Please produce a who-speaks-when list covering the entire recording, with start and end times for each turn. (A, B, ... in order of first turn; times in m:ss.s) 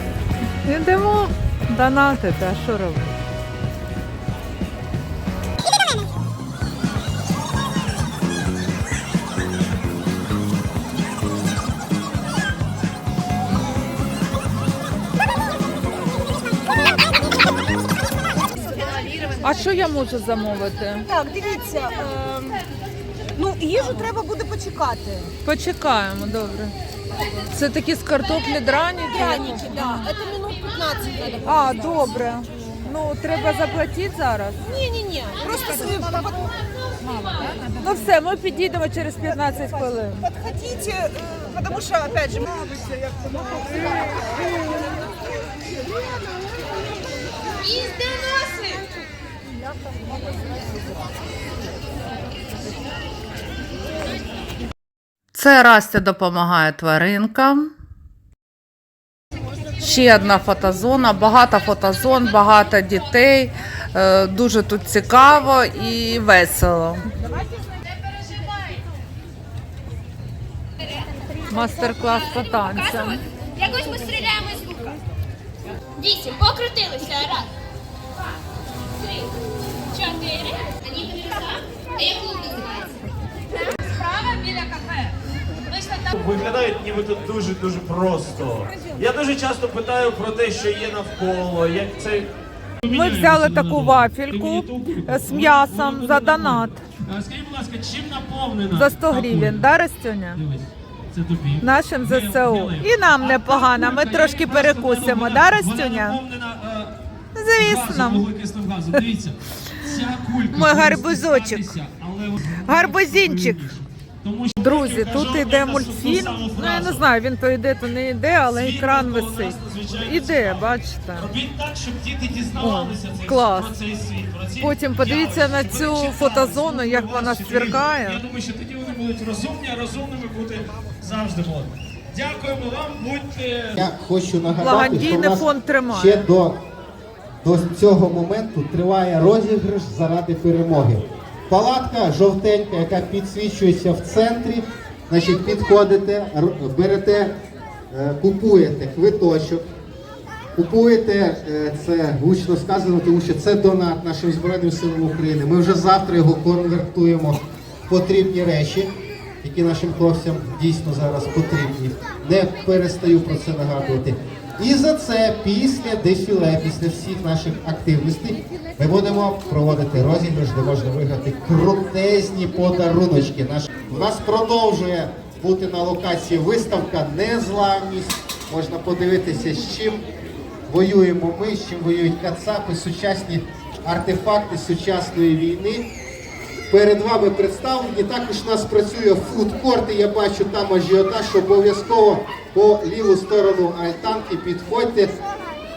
0:00.6-0:03.2 A
0:18.8-0:19.2 B
0:19.4-0:21.1 A
0:21.1-0:22.6 B
0:23.4-0:25.3 B
0:25.4-0:26.7 A
0:27.5-0:30.2 A
0:29.9-0:31.5 B
0:31.4-0:34.6 A
0:34.7-0:37.6 B
0:37.7-0:40.4 A
0:40.4-0:45.0 B
0:55.3-0:57.7 A
0:59.8-1:07.1 A
1:11.5-1:13.2 A
1:13.6-1:14.9 C
1:16.0-1:17.4 C
1:20.0-1:21.4 C
1:22.0-1:22.8 C
1:26.1-1:32.3 D
1:32.8-1:39.7 D
1:32.9-1:36.8 A
1:38.7-1:40.4 A
1:40.4-1:47.0 D
1:41.6-1:46.2 A
1:47.4-1:48.3 A
1:47.6-1:57.0 D
1:50.5-1:51.8 A
1:52.6-1:53.7 A
1:54.6-2:01.3 A
1:58.5-2:13.9 D
2:02.6-2:03.8 A
2:04.6-2:08.2 A
2:13.8-2:16.6 E
2:14.6-2:16.3 A
2:17.4-2:27.4 E
2:27.9-2:29.6 E
2:30.6-3:00.0 E
3:00.7-3:05.9 E
3:06.7-3:15.2 E